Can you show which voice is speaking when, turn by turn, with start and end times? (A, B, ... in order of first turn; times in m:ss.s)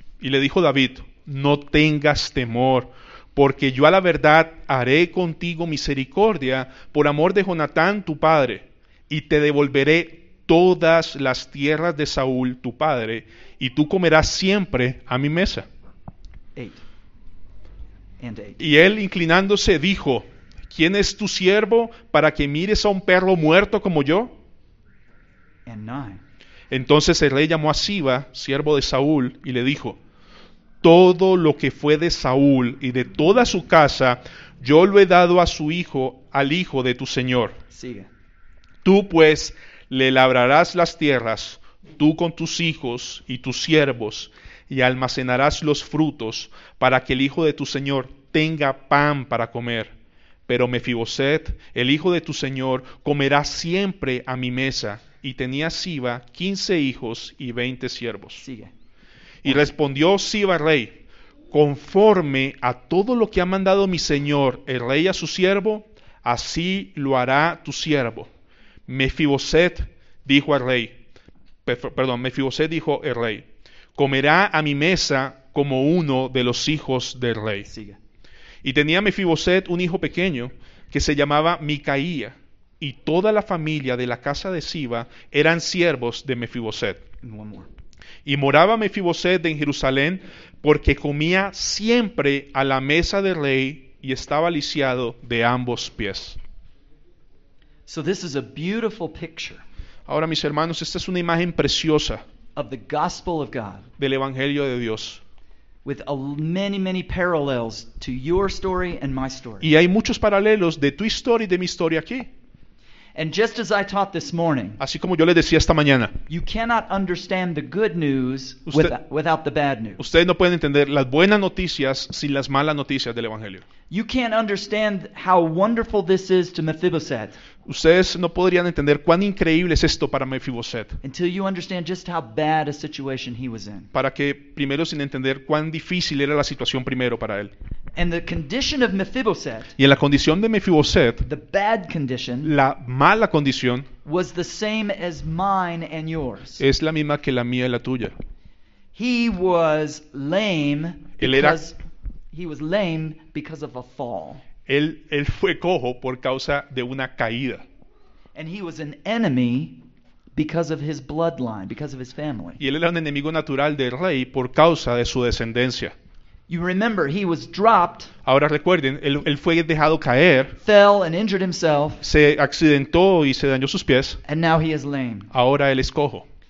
0:00.2-0:15.7 A
0:16.6-0:16.8 B
0:18.2-0:18.6 B
0:18.6-0:24.3 A
0:25.7-0:26.2 B
0:26.7-0:30.0 A
0:30.8-0:37.6 A
0:37.7-0:38.1 B
0:38.8-0:49.9 A
0:50.5-0:58.4 A
0:58.4-0:58.7 B
0:59.4-1:08.3 A
1:08.9-1:11.0 A
1:11.6-1:17.7 A
1:17.7-1:18.0 B
1:18.6-1:27.0 A
1:27.2-1:27.7 B
1:28.2-1:36.4 A
1:37.9-1:39.6 B
1:40.1-1:42.2 A
1:42.6-1:43.9 B
1:44.0-1:45.2 A
1:45.8-1:49.7 B
1:49.6-1:52.3 A
1:53.2-1:54.8 B
1:54.8-1:56.2 A
1:56.3-2:00.0 B
1:58.7-1:58.9 A
2:00.0-2:03.6 A
2:03.9-2:07.4 B
2:07.7-2:11.0 A
2:11.0-2:13.9 B
2:13.9-2:17.5 A
2:18.0-2:19.7 B
2:19.8-2:21.2 A
2:21.2-2:22.6 B
2:22.4-2:23.9 A
2:24.0-2:26.6 B
2:26.6-2:28.1 A
2:29.0-2:31.8 B
2:31.2-2:31.6 A
2:32.3-2:34.4 B
2:34.7-2:37.6 A
2:38.4-2:39.8 B
2:40.4-2:42.6 B
2:42.6-2:46.0 A
2:46.5-2:48.1 B
2:48.3-2:50.6 A
2:50.6-2:52.0 B
2:52.0-2:54.2 A
2:54.3-2:55.3 B
2:55.3-2:56.3 A